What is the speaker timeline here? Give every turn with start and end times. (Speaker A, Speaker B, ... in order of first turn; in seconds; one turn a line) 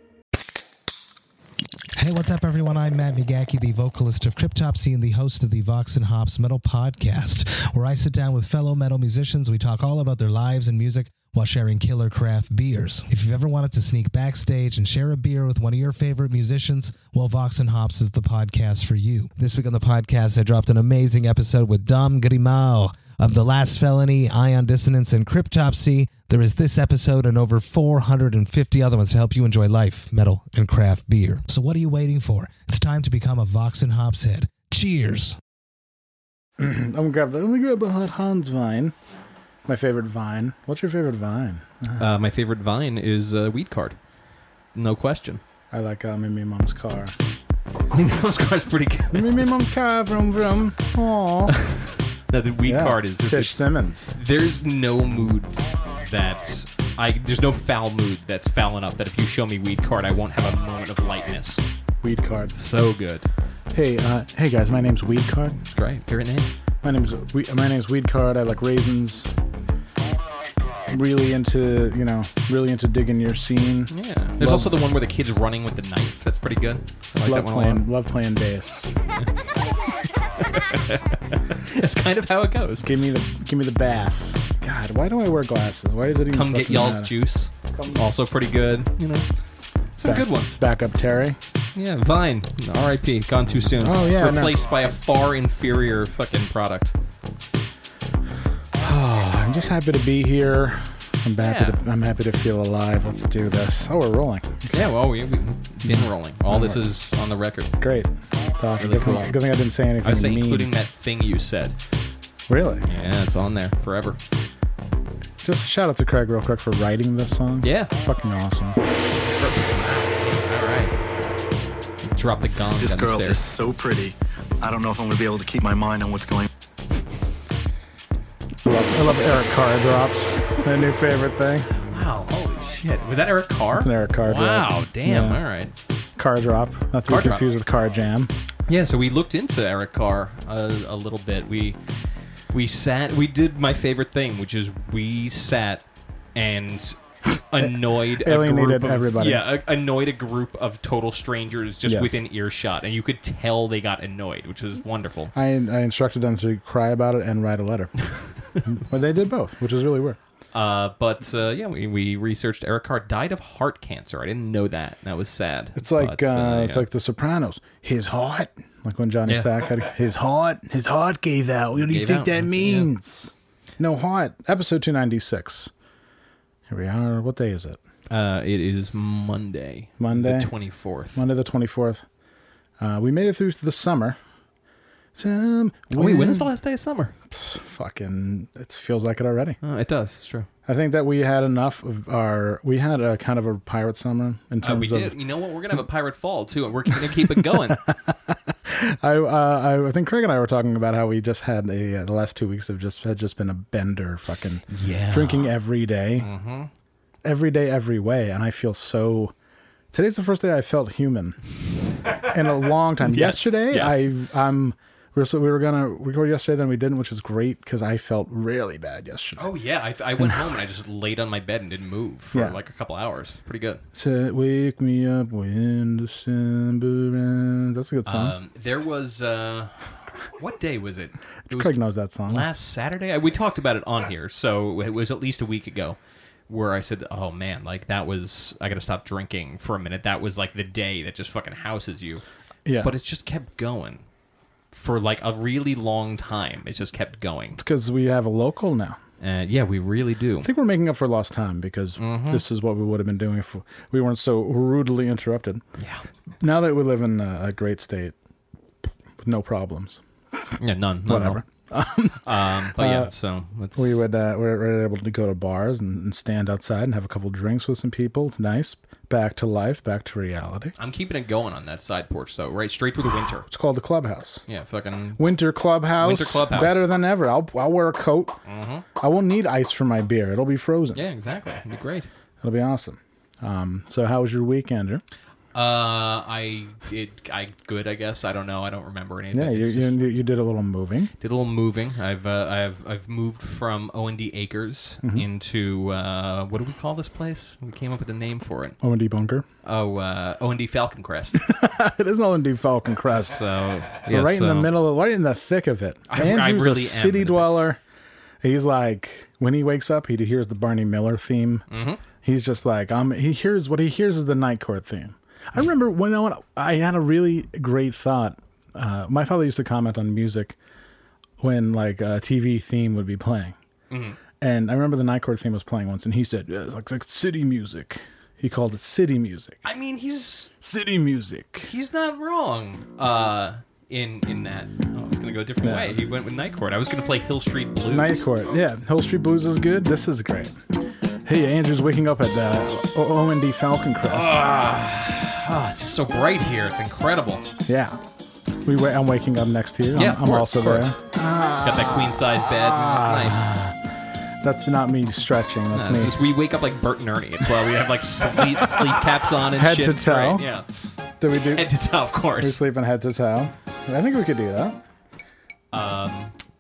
Speaker A: 2.0-35.4
Speaker B: 36.6-39.0
Speaker B: 39.7-42.1
Speaker C: 42.0-44.0
Speaker C: 44.8-45.4
Speaker B: 45.7-47.1
Speaker C: 47.9-49.5
Speaker B: 49.1-51.6
Speaker C: 51.6-61.6
Speaker B: 52.7-54.1
Speaker B: 62.0-62.5
Speaker C: 62.5-63.3
Speaker B: 63.7-65.6
Speaker C: 65.7-66.5
Speaker B: 66.8-69.3
Speaker B: 70.9-74.8
Speaker C: 73.9-77.8
Speaker B: 77.2-78.9
Speaker C: 80.3-82.9
Speaker B: 82.8-87.1
Speaker C: 86.3-89.3
Speaker B: 87.7-88.0
Speaker C: 90.0-90.6
Speaker B: 90.0-91.4
Speaker C: 91.8-96.9
Speaker B: 93.8-94.6
Speaker B: 98.8-104.8
Speaker C: 101.4-101.8
Speaker C: 104.7-107.7
Speaker B: 105.9-106.9
Speaker B: 107.8-110.7
Speaker C: 108.8-109.3
Speaker C: 110.0-111.8
Speaker B: 112.5-112.9
Speaker C: 112.9-114.2
Speaker B: 115.4-118.8
Speaker C: 117.6-117.9
Speaker C: 119.2-121.0
Speaker C: 122.1-123.4
Speaker D: 122.8-126.5
Speaker B: 128.6-131.7
Speaker C: 131.8-135.7
Speaker B: 133.7-135.4
Speaker B: 136.2-138.3
Speaker C: 137.1-137.4
Speaker C: 138.7-141.8
Speaker C: 142.5-155.3
Speaker B: 147.6-149.4
Speaker B: 151.9-152.2
Speaker B: 155.3-157.9
Speaker B: 158.7-160.2
Speaker C: 160.5-166.9
Speaker B: 165.8-175.7
Speaker C: 169.3-169.5
Speaker C: 171.8-172.9
Speaker B: 176.7-177.8
Speaker C: 178.1-181.2
Speaker B: 180.0-180.5
Speaker B: 181.2-182.0
Speaker B: 182.8-184.2
Speaker B: 185.2-186.5
Speaker C: 185.9-187.1
Speaker B: 187.3-189.6
Speaker C: 189.6-190.5
Speaker B: 190.7-195.2
Speaker C: 194.6-197.9
Speaker B: 197.4-206.3
Speaker C: 204.7-205.5
Speaker C: 206.2-206.7
Speaker B: 207.2-209.3
Speaker B: 209.9-211.4
Speaker B: 212.2-219.5
Speaker C: 213.0-214.0
Speaker C: 219.4-223.8
Speaker B: 223.9-228.4
Speaker C: 228.1-236.0
Speaker B: 231.5-232.5
Speaker C: 236.5-242.2
Speaker B: 242.7-242.9
Speaker C: 242.8-244.0
Speaker C: 244.7-247.6
Speaker B: 247.6-249.0
Speaker C: 249.2-250.5
Speaker B: 250.4-255.6
Speaker C: 252.0-252.4
Speaker C: 255.8-256.0
Speaker B: 256.4-258.1
Speaker B: 259.2-260.0
Speaker C: 260.6-261.4
Speaker B: 261.1-263.1
Speaker C: 262.2-264.0
Speaker B: 263.8-270.8
Speaker C: 270.8-273.5
Speaker B: 273.5-274.4
Speaker C: 274.5-275.2
Speaker B: 275.2-278.4
Speaker C: 276.0-276.9
Speaker C: 278.4-278.9
Speaker B: 279.0-281.0
Speaker C: 280.9-282.1
Speaker B: 282.4-285.0
Speaker C: 285.5-290.0
Speaker B: 289.3-291.1
Speaker C: 291.2-298.8
Speaker B: 298.8-299.5
Speaker C: 299.6-301.4
Speaker B: 301.4-303.4
Speaker C: 303.2-304.8
Speaker B: 304.1-307.8
Speaker C: 306.1-307.6
Speaker B: 308.4-311.6
Speaker C: 311.7-312.0
Speaker B: 312.2-320.6
Speaker B: 321.4-323.6
Speaker C: 323.9-324.2
Speaker B: 324.4-329.6
Speaker C: 329.6-330.5
Speaker B: 330.6-331.7
Speaker C: 331.6-338.3
Speaker B: 335.6-336.0
Speaker B: 337.9-340.6
Speaker B: 341.2-344.5
Speaker C: 344.1-347.5
Speaker B: 347.7-348.0
Speaker B: 348.6-353.8
Speaker C: 350.0-351.0
Speaker C: 351.6-353.5
Speaker B: 354.4-356.2
Speaker C: 355.7-360.7
Speaker B: 359.5-360.5
Speaker B: 361.2-361.7
Speaker C: 361.4-362.6
Speaker B: 362.4-364.8
Speaker C: 365.7-366.3